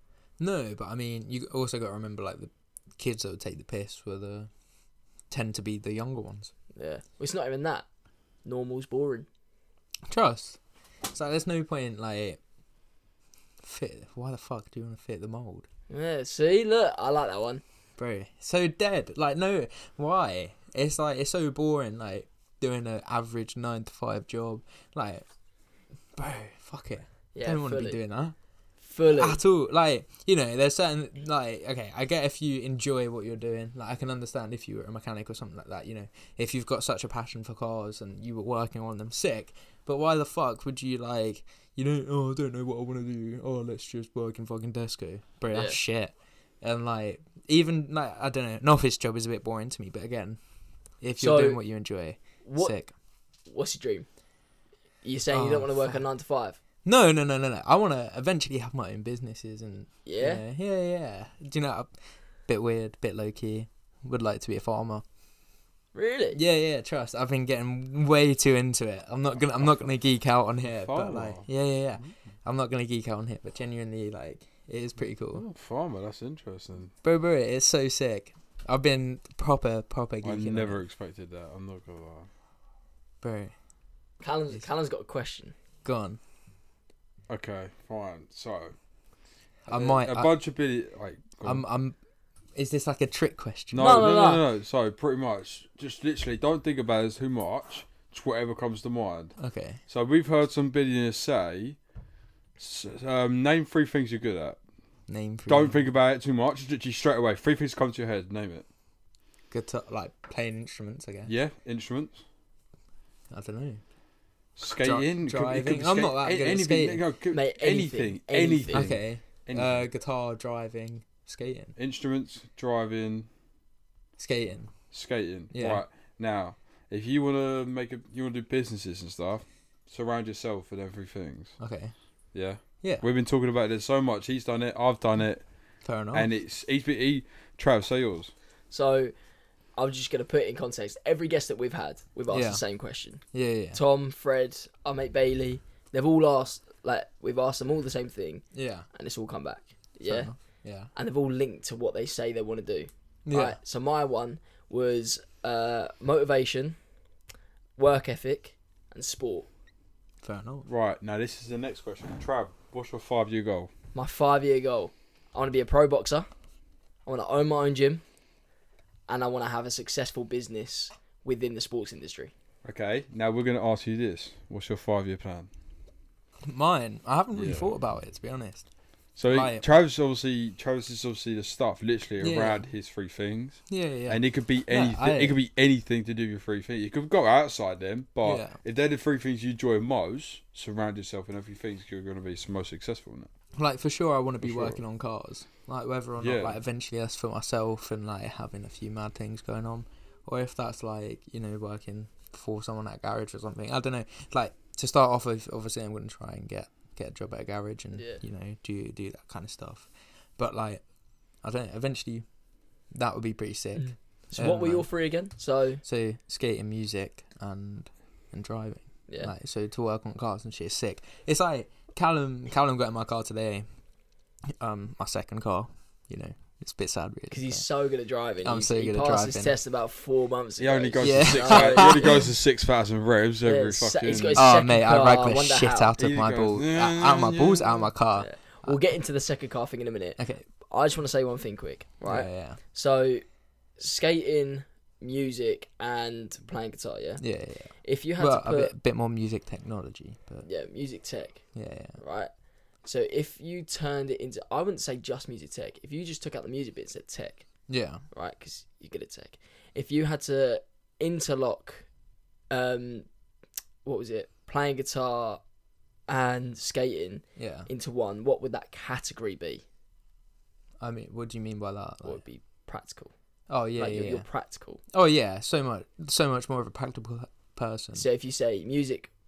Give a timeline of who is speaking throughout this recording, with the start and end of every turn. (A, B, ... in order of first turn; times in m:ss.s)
0:00.4-0:04.5 A
0:05.3-0:06.5 A
0:06.8-0:07.9 B
0:08.4-0:09.3 B
0:10.1-0:10.6 A
0:11.1-0:12.4 A
0:13.6-0:15.6 A
0:15.9-0:17.6 B
0:18.0-0:25.2 A
0:26.1-0:28.4 A
0:27.4-0:28.0 B
0:28.8-0:29.4 B
0:29.1-0:50.4 A
0:45.5-0:45.8 B
0:51.0-0:52.9 A
0:51.2-0:51.6 B
0:52.4-0:52.8 B
0:53.5-0:54.0 B
0:55.0-0:56.6 B
0:55.3-0:56.0 A
0:56.8-1:01.9 A
1:00.0-1:00.4 B
1:02.5-1:05.0 A
1:06.0-1:06.4 B
1:06.3-1:15.4 A
1:10.7-1:11.5 C
1:15.3-1:16.9 C
1:17.0-1:20.8 A
1:20.2-1:22.3 C
1:23.2-1:23.5 A
1:24.2-1:25.5 B
1:25.8-1:26.2 A
1:27.3-1:28.8 C
1:29.6-1:30.3 A
1:29.7-1:31.6 C
1:31.4-1:32.0 A
1:32.5-1:34.1 A
1:33.7-1:39.4 C
1:33.8-1:34.4 B
1:39.4-1:39.8 A
1:39.9-1:41.8 C
1:42.6-1:44.6 C
1:45.1-1:45.8 A
1:45.5-1:48.7 C
1:49.5-1:51.3 A
1:51.2-1:52.2 C
1:53.3-1:53.8 A
1:54.6-1:59.9 C
1:54.6-1:57.0 A
1:57.3-1:58.9 B
1:58.7-2:01.8 A
2:01.8-2:03.3 C
2:04.2-2:04.7 A
2:04.9-2:11.5 C
2:05.5-2:05.8 A
2:11.6-2:11.9 A
2:12.3-2:15.5 C
2:15.8-2:16.3 A
2:16.1-2:18.3 C
2:18.7-2:19.1 B
2:19.8-2:30.3 B
2:22.3-2:22.6 A
2:23.3-2:23.8 A
2:28.5-2:28.9 A
2:30.0-2:30.9 A
2:31.0-2:36.8 B
2:33.3-2:33.6 A
2:37.8-2:39.5 B
2:40.2-2:40.6 A
2:40.6-2:43.7 C
2:43.9-2:46.3 B
2:47.0-2:48.0 B
2:49.1-2:52.3 B
2:52.6-2:55.5 C
2:56.4-2:58.6 A
2:57.3-2:57.7 C
2:59.2-3:13.3 C
2:59.3-2:59.6 A
3:02.2-3:02.7 A
3:03.7-3:05.4 A
3:08.2-3:08.6 A
3:13.5-3:30.8 A
3:14.4-3:14.8 C
3:16.2-3:16.6 C
3:31.4-3:32.2 A
3:32.9-3:34.9 A
3:33.8-3:35.8 B
3:35.8-3:43.6 A
3:44.5-3:47.6 A
3:47.3-3:52.2 B
3:48.4-3:49.6 A
3:50.6-3:54.5 C
3:51.0-3:52.1 A
3:53.5-3:55.9 B
3:54.4-3:58.8 A
3:56.0-3:57.8 C
3:58.2-4:03.2 B
4:00.2-4:00.5 A
4:02.0-4:02.6 A
4:03.8-4:07.2 B
4:07.2-4:10.5 A
4:07.8-4:08.7 B
4:10.4-4:11.5 B
4:11.5-4:12.0 A
4:12.0-4:12.3 B
4:12.8-4:17.5 B
4:17.7-4:18.0 A
4:18.1-4:21.9 B
4:22.5-4:23.0 B
4:23.8-4:25.4 B
4:26.1-4:29.6 B
4:27.4-4:27.7 A
4:30.8-4:32.2 A
4:32.0-4:33.1 B
4:33.5-4:34.3 A
4:33.8-4:34.8 B
4:34.9-4:38.0 A
4:38.0-4:39.1 B